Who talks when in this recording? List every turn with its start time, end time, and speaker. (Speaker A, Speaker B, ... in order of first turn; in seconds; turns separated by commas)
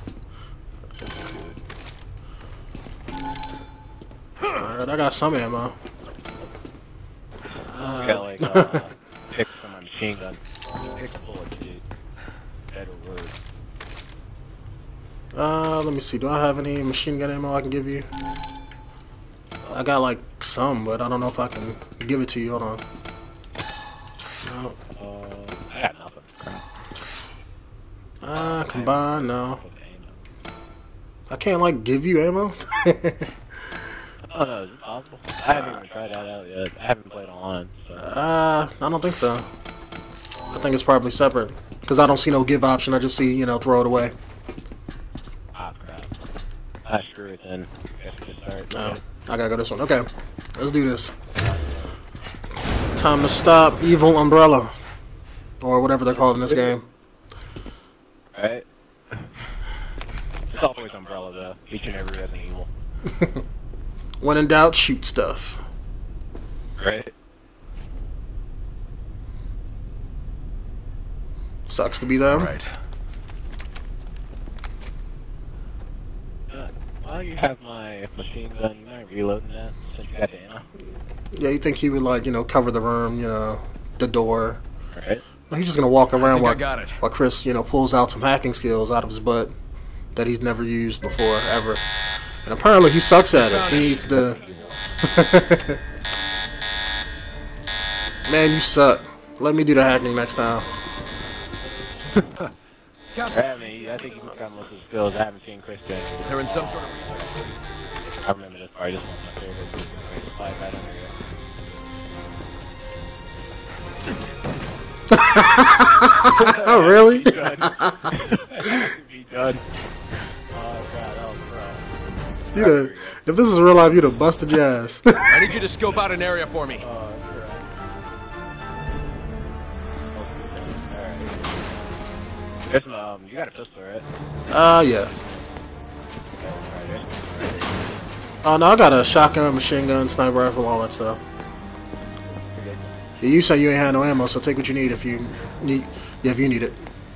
Speaker A: 1.0-1.6, Speaker B: 4.5-5.7, Speaker B: 7.7-8.9, Speaker A: 7.8-10.4, Speaker A: 10.9-11.8, Speaker A: 12.7-13.3, Speaker B: 15.3-18.1, Speaker B: 19.7-22.8, Speaker B: 24.4-24.8, Speaker A: 25.0-26.6, Speaker B: 28.2-29.6, Speaker A: 28.4-30.2, Speaker B: 31.3-33.3, Speaker A: 34.3-38.1, Speaker B: 35.5-35.8, Speaker B: 38.0-39.5, Speaker B: 40.5-44.1, Speaker A: 45.5-46.1, Speaker A: 46.9-49.0, Speaker B: 48.7-51.1, Speaker A: 51.4-51.9, Speaker B: 53.0-54.7, Speaker B: 55.6-56.9, Speaker A: 56.1-56.7, Speaker A: 58.3-59.3, Speaker A: 60.5-62.7, Speaker B: 63.0-63.4, Speaker B: 64.2-65.6, Speaker A: 66.8-67.1, Speaker B: 71.7-72.6, Speaker C: 72.3-72.7, Speaker A: 76.5-80.7, Speaker B: 81.3-84.6, Speaker A: 84.9-85.2, Speaker B: 85.5-89.5, Speaker C: 86.2-87.0, Speaker B: 90.2-91.8, Speaker B: 92.5-94.4, Speaker A: 93.4-94.8, Speaker B: 95.0-95.8, Speaker B: 98.3-100.7, Speaker A: 102.1-102.5, Speaker A: 103.2-107.5, Speaker C: 106.3-106.9, Speaker A: 108.2-111.1, Speaker B: 115.1-118.9, Speaker A: 116.3-119.6, Speaker A: 120.5-121.9, Speaker A: 122.5-123.2, Speaker B: 122.5-125.5, Speaker C: 125.3-126.8, Speaker A: 126.8-127.7, Speaker A: 130.1-131.6, Speaker A: 132.7-134.1, Speaker B: 134.5-135.1, Speaker A: 136.4-138.1, Speaker B: 138.4-141.2, Speaker A: 142.3-143.2, Speaker B: 143.2-146.8